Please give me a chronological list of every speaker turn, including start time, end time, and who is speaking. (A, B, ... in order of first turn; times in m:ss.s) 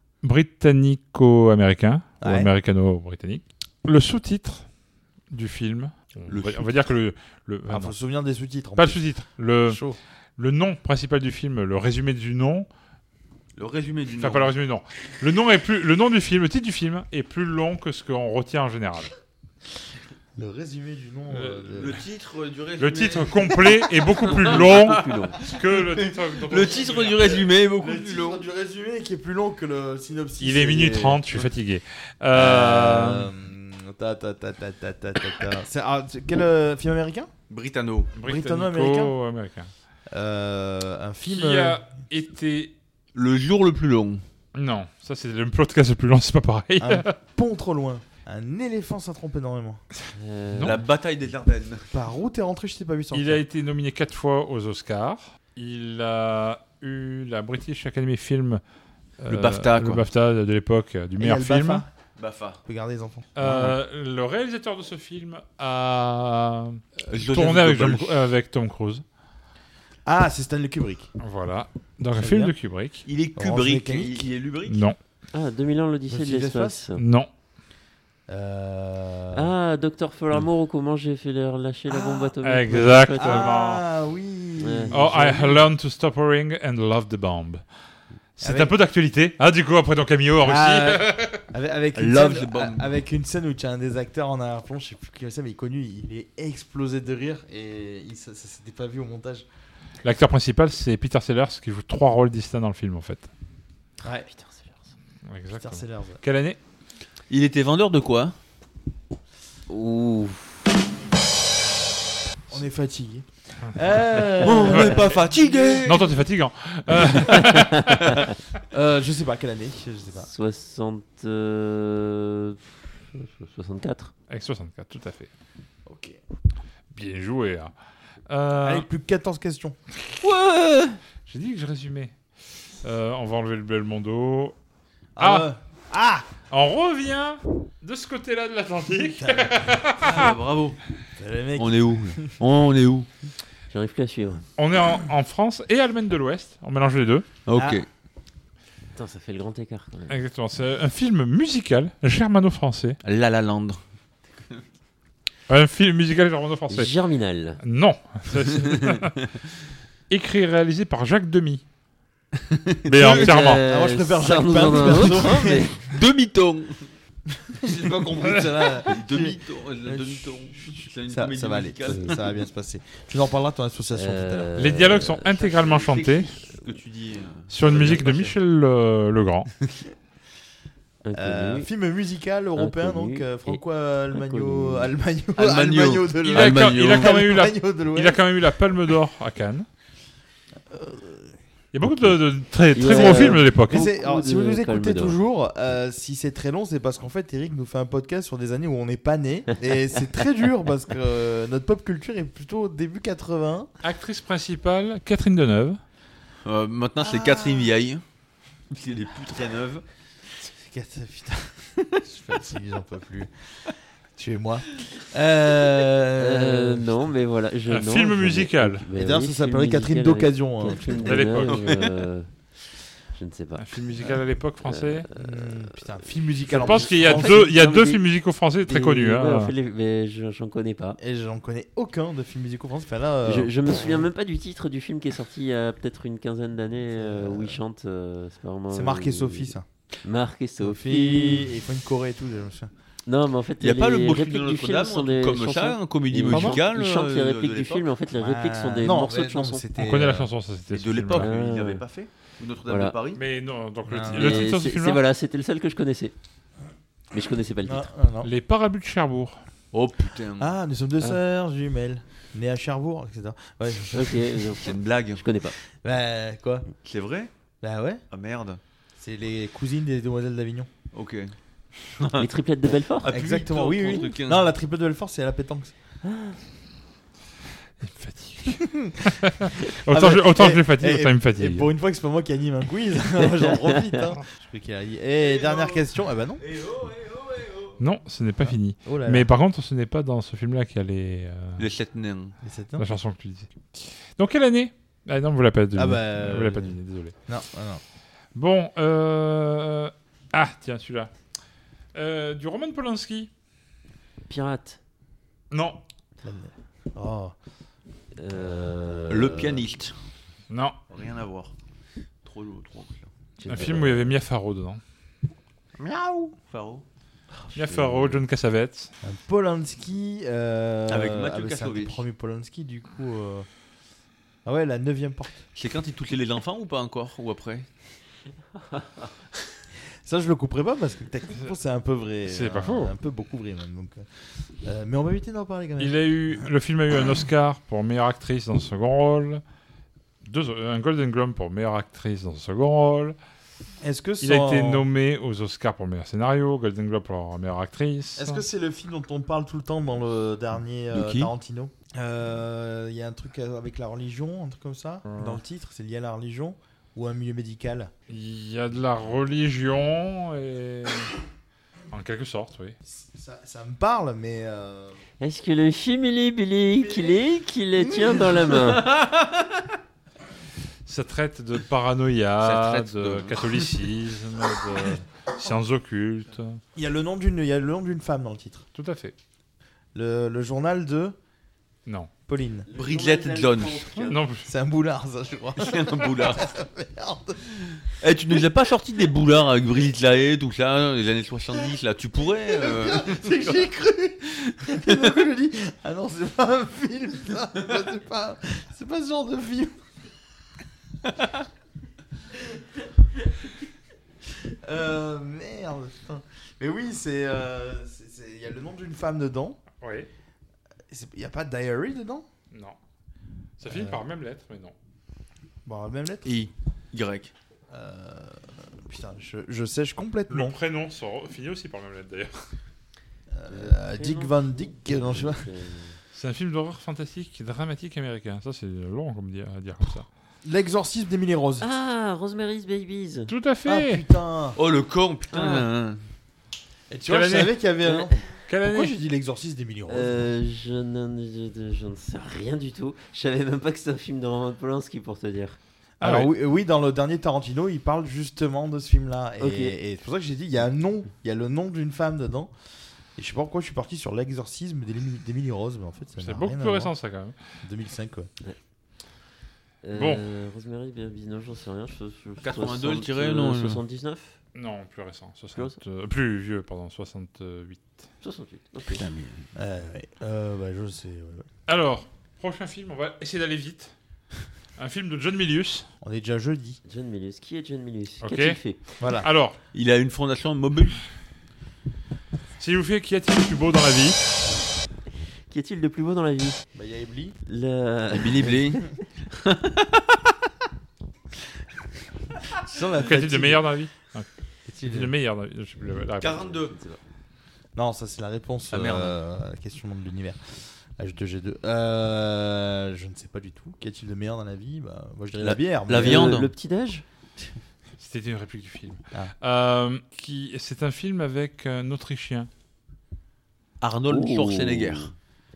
0:00.2-0:04.6 A
0:02.2-0:02.5 B
0:05.3-0:07.9 A
0:06.3-0:06.7 C
0:07.7-0:09.0 B
0:08.8-0:09.8 A
0:09.6-0:10.0 B
0:10.4-0:12.7 A
0:13.6-0:14.5 C
0:14.2-0:19.1 A
0:20.4-0:21.9 B
0:21.3-0:22.0 A
0:21.7-0:28.4 C
0:22.8-0:27.4 A
0:24.4-0:25.4 D
0:27.8-0:31.5 B
0:30.4-0:33.3 A
0:32.3-0:37.3 B
0:37.5-0:38.1 C
0:38.1-0:39.7 A
0:38.2-0:39.1 B
0:40.1-0:41.8 B
0:41.2-0:42.7 A
0:43.1-0:44.2 C
0:44.5-0:47.1 A
0:46.8-0:49.8 B
0:50.1-0:50.8 D
0:50.6-0:51.9 C
0:51.9-0:53.4 B
0:53.1-0:58.6 A
0:59.2-1:01.8 A
0:59.3-1:00.0 C
1:01.2-1:01.9 B
1:02.2-1:02.6 C
1:02.6-1:03.8 B
1:03.4-1:09.0 A
1:07.1-1:08.2 C
1:10.0-1:11.1 B
1:11.2-1:13.0 A
1:12.1-1:12.6 B
1:13.0-1:14.8 C
1:13.4-1:14.3 B
1:14.7-1:15.0 A
1:15.3-1:17.0 D
1:16.1-1:16.8 B
1:17.0-1:17.3 A
1:18.3-1:19.5 B
1:19.3-1:23.5 D
1:21.9-1:22.3 B
1:22.4-1:23.8 A
1:23.2-1:25.7 B
1:24.6-1:24.9 D
1:24.9-1:27.6 A
1:28.4-1:31.4 A
1:28.4-1:28.7 B
1:30.4-1:39.4 B
1:31.9-1:33.0 C
1:40.0-1:43.3 A
1:44.3-1:44.7 D
1:45.3-1:46.6 A
1:45.5-1:46.2 B
1:47.3-1:48.3 C
1:49.7-1:50.6 D
1:52.5-1:55.9 B
1:54.4-1:55.2 D
1:54.4-1:56.2 C
1:54.7-1:55.0 A
1:55.8-1:58.1 A
1:57.5-1:58.1 D
1:58.7-2:00.3 B
2:00.3-2:04.1 D
2:04.3-2:05.3 A
2:05.8-2:06.2 B
2:06.9-2:07.7 A
2:08.3-2:08.8 A
2:08.6-2:09.8 B
2:10.2-2:11.0 D
2:11.3-2:12.1 A
2:12.8-2:14.5 A
2:15.2-2:16.3 B
2:15.2-2:15.5 A
2:16.5-2:20.3 A
2:19.2-2:19.8 B
2:20.0-2:20.8 C
2:21.2-2:22.3 B
2:21.6-2:23.1 C
2:23.7-2:24.4 D
2:24.6-2:27.3 A
2:27.4-2:27.9 C
2:27.5-2:27.8 B
2:29.0-2:30.1 D
2:30.1-2:33.0 A
2:33.0-2:33.8 C
2:35.5-2:36.9 A
2:36.7-2:37.6 D
2:37.6-2:39.3 A
2:40.1-2:41.6 A
2:42.4-2:43.4 C
2:42.9-2:43.6 A
2:43.1-2:45.8 D
2:43.6-2:45.8 B
2:45.8-2:46.9 C
2:47.3-2:54.5 B
2:47.6-2:52.2 C
2:51.9-2:52.1 D
2:53.9-2:55.3 D
2:54.5-2:56.3 A
2:55.2-2:58.3 C
2:57.5-2:59.5 A
3:01.0-3:01.7 D
3:01.1-3:08.2 B
3:02.6-3:04.9 D
3:05.4-3:07.2 C
3:06.3-3:09.7 A
3:10.7-3:11.3 B
3:11.7-3:13.9 A
3:12.7-3:15.2 D
3:12.8-3:23.7 B
3:23.8-3:25.8 A
3:26.4-3:28.0 C
3:27.0-3:27.7 B
3:28.7-3:29.8 C
3:30.4-3:33.3 B
3:34.2-3:36.9 B
3:36.2-3:42.3 D
3:37.7-3:38.9 A
3:38.9-3:41.5 B
3:41.0-3:41.8 A
3:43.1-3:43.8 D
3:43.6-3:45.1 A
3:43.9-3:44.2 B
3:44.6-3:45.7 D
3:45.1-3:47.5 B
3:46.5-3:48.0 D
3:46.5-3:49.5 A
3:48.7-3:51.0 D
3:51.0-3:54.0 B
3:53.2-3:59.5 D
3:56.9-3:57.6 B
3:58.7-3:59.6 B
4:00.0-4:01.5 D
4:00.6-4:02.7 B
4:03.0-4:09.6 D
4:03.6-4:07.9 C
4:08.1-4:10.3 B
4:09.8-4:11.3 A
4:10.7-4:13.2 C
4:11.1-4:11.8 D
4:12.7-4:13.0 D
4:13.1-4:15.0 A
4:13.9-4:14.5 B
4:14.1-4:16.1 D
4:17.1-4:17.9 D
4:17.6-4:18.3 B
4:18.2-4:19.4 A
4:19.7-4:20.5 C
4:20.4-4:24.6 B
4:23.9-4:25.5 D
4:24.6-4:25.2 C
4:25.8-4:26.7 B
4:26.8-4:27.3 C
4:27.6-4:28.0 B
4:28.1-4:28.6 C
4:29.0-4:30.7 B
4:30.9-4:31.3 C
4:32.0-4:32.3 C
4:32.1-4:33.1 D
4:33.0-4:34.5 C
4:33.1-4:35.7 B
4:36.0-4:36.3 D
4:37.8-4:41.7 A
4:38.4-4:46.4 B
4:45.2-4:47.8 C
4:47.8-4:51.6 A
4:48.4-4:49.3 B
4:51.6-4:52.3 C
4:52.4-4:52.9 B
4:52.8-4:57.1 A
4:55.7-4:57.8 B
4:58.3-5:01.1 A
5:01.9-5:03.3 A
5:04.3-5:04.8 D
5:05.5-5:05.8 A
5:06.2-5:07.3 B
5:08.2-5:09.6 D
5:09.1-5:09.9 C
5:10.5-5:10.8 A
5:10.9-5:11.5 C
5:12.2-5:13.1 C
5:13.4-5:14.1 D
5:13.5-5:14.8 A
5:15.8-5:16.8 C
5:17.5-5:18.9 A
5:17.7-5:18.2 C
5:19.0-5:23.4 B
5:20.9-5:22.0 C
5:24.4-5:25.4 B
5:25.5-5:27.7 C
5:30.0-5:34.1 B
5:32.3-5:32.9 A
5:34.6-5:36.0 B
5:35.8-5:39.4 A
5:40.2-5:43.2 A
5:43.8-5:44.9 B
5:44.2-5:48.4 A
5:48.2-5:57.9 B
5:50.9-5:51.3 C
5:55.1-5:55.4 A
5:58.1-6:01.1 A
6:01.9-6:02.8 A
6:02.8-6:05.0 B
6:05.2-6:08.8 D
6:08.0-6:08.4 B
6:08.5-6:09.4 C
6:10.8-6:16.6 A
6:12.4-6:13.8 C
6:16.7-6:18.6 B
6:18.7-6:19.1 A
6:19.9-6:21.2 B
6:22.3-6:22.7 B
6:22.7-6:24.2 D
6:22.7-6:23.9 C
6:24.0-6:24.5 A
6:24.4-6:27.4 B
6:25.6-6:26.5 C
6:27.7-6:33.6 C
6:32.5-6:39.8 B
6:34.5-6:35.1 C
6:42.4-6:42.6 B
6:44.4-6:49.6 B
6:49.8-6:50.1 A
6:50.9-6:52.2 B
6:52.5-6:52.8 A
6:53.6-6:54.7 A
6:53.6-6:54.0 B
6:55.6-6:56.3 B
6:56.2-6:57.3 C
6:57.7-7:00.6 B
7:00.3-7:02.4 A
7:03.3-7:05.4 B
7:03.5-7:06.0 D
7:06.1-7:10.0 A
7:10.4-7:11.6 B
7:11.6-7:13.3 D
7:13.3-7:14.0 A
7:13.6-7:14.6 B
7:14.6-7:16.0 C
7:15.3-7:15.6 D
7:16.9-7:20.2 B
7:17.1-7:17.6 A
7:17.8-7:18.2 D
7:18.5-7:19.0 A
7:19.9-7:25.6 D
7:26.0-7:32.5 B
7:26.0-7:26.3 A
7:29.4-7:29.8 D
7:33.2-7:36.9 B
7:36.2-7:37.4 A
7:37.6-7:38.3 B
7:39.8-7:44.4 D
7:39.9-7:40.2 A
7:42.4-7:43.8 C
7:44.5-7:48.0 A
7:45.5-7:45.8 D
7:48.2-7:49.0 D
7:48.9-7:49.4 C
7:49.5-7:51.4 B
7:51.7-7:53.9 A
7:54.8-7:55.8 A
7:56.0-7:56.8 B
7:56.8-7:58.8 D
7:58.2-7:58.6 A
7:59.0-7:59.3 B
7:59.1-7:59.6 A
7:59.7-8:01.0 C
8:02.6-8:04.4 A
8:05.5-8:06.6 D
8:06.7-8:07.4 B
8:07.4-8:08.8 D
8:08.1-8:10.0 C
8:12.6-8:13.6 B
8:13.0-8:14.3 A
8:14.6-8:15.1 B
8:14.8-8:16.6 A
8:16.2-8:16.8 C
8:16.7-8:17.0 D
8:17.8-8:26.4 B
8:18.7-8:19.2 C
8:25.4-8:26.5 C
8:25.9-8:27.0 D
8:28.0-8:32.5 A
8:33.8-8:35.1 C
8:34.1-8:35.1 D